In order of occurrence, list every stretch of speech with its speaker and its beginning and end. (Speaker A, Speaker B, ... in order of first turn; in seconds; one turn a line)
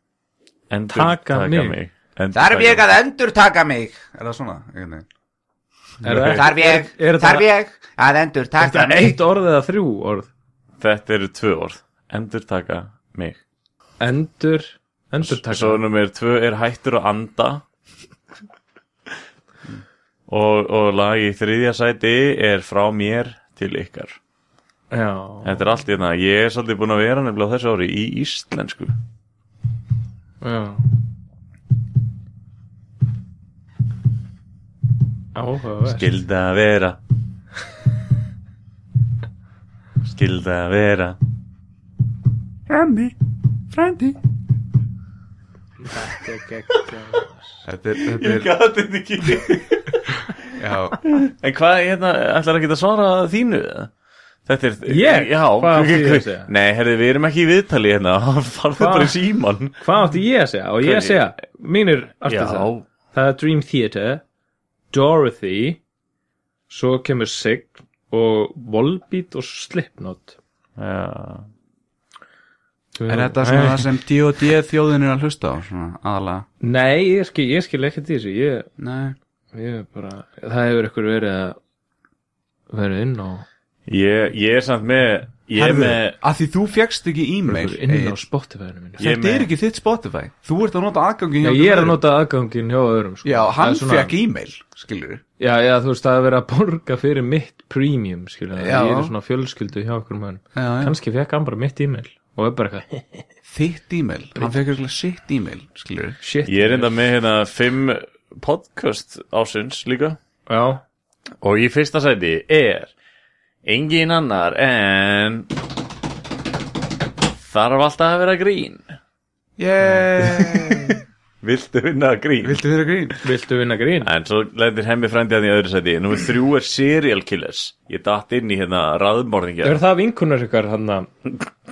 Speaker A: 0.7-2.9
Speaker B: 0.9-1.8
Speaker C: 2.3-4.0
Speaker D: 4.1-5.0
Speaker B: 6.0-7.5
Speaker A: 6.1-6.4
Speaker C: 6.3-9.2
Speaker B: 8.6-10.3
Speaker A: 10.8-13.4
Speaker B: 14.0-15.8
Speaker A: 15.2-17.6
Speaker A: 20.3-24.2
Speaker B: 24.9-25.6
Speaker A: 25.4-28.9
Speaker B: 30.4-30.8
Speaker B: 35.3-36.1
Speaker A: 35.8-37.0
Speaker A: 40.0-41.2
Speaker D: 42.7-43.1
Speaker D: 43.7-44.2
Speaker B: 45.8-47.6
Speaker D: 47.6-48.5
Speaker A: 48.0-50.2
Speaker D: 50.5-51.0
Speaker A: 51.0-53.9
Speaker A: 54.5-59.8
Speaker B: 54.9-56.5
Speaker B: 58.8-59.1
Speaker B: 59.8-64.2
Speaker A: 60.8-61.3
Speaker A: 62.2-62.9
Speaker B: 64.9-65.8
Speaker B: 66.7-70.4
Speaker A: 70.8-71.5
Speaker B: 73.0-73.8
Speaker D: 73.1-76.5
Speaker B: 76.6-78.7
Speaker D: 78.8-79.2
Speaker B: 79.5-81.6
Speaker B: 82.7-83.4
Speaker A: 83.9-86.2
Speaker D: 85.5-88.2
Speaker B: 87.5-89.1
Speaker D: 89.0-92.0
Speaker A: 89.0-89.5
Speaker B: 91.4-94.1
Speaker D: 93.2-95.2
Speaker B: 95.4-103.2
Speaker D: 98.6-99.1
Speaker D: 100.5-101.0
Speaker D: 103.5-106.2
Speaker B: 106.2-107.0
Speaker A: 106.5-110.2
Speaker B: 110.5-110.8
Speaker A: 111.4-112.9
Speaker A: 113.6-115.5
Speaker A: 117.4-118.9
Speaker D: 119.6-121.0
Speaker A: 120.2-122.6
Speaker D: 122.4-123.2
Speaker B: 123.2-124.1
Speaker A: 124.0-129.8
Speaker B: 129.6-131.1